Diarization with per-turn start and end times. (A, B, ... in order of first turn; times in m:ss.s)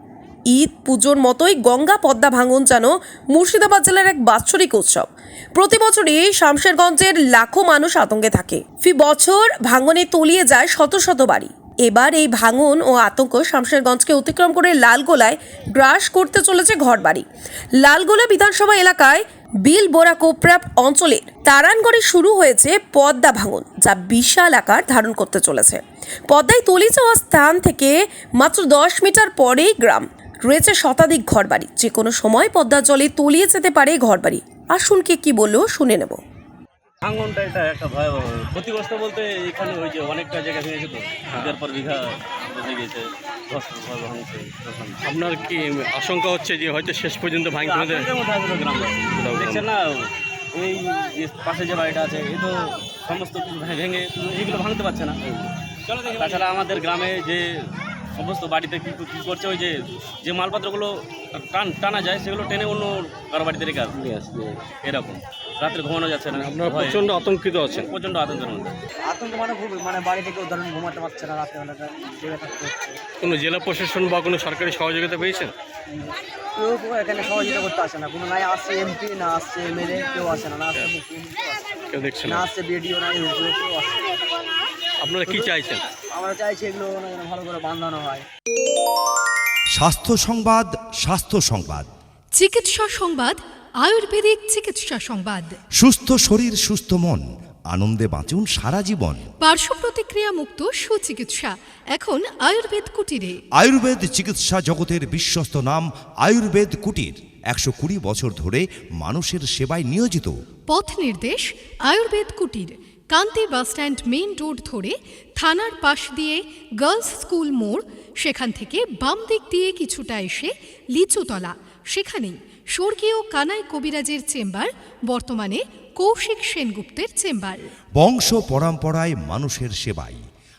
0:00.5-0:17.3 A
0:17.8-0:36.2 A
0:37.0-0:45.0 B
0:41.3-0:41.6 C
0:45.0-0:48.1 C
0:47.6-0:57.6 B
0:49.1-0:49.6 C
0:58.2-1:04.0 B
1:04.0-1:04.6 C
1:04.8-1:07.1 B
1:06.4-1:07.9 C
1:07.8-1:08.8 B
1:09.0-1:13.0 D
1:13.2-1:15.5 C
1:15.9-1:24.3 D
1:21.9-1:22.5 C
1:25.0-1:25.8 C
1:25.3-1:25.6 D
1:26.1-1:28.3 D
1:29.7-1:31.9 E
1:32.4-1:35.6 F
1:35.8-1:39.2 E
1:39.4-1:43.4 F
1:43.6-1:50.3 E
1:50.7-2:07.7 F
2:08.0-2:10.2 E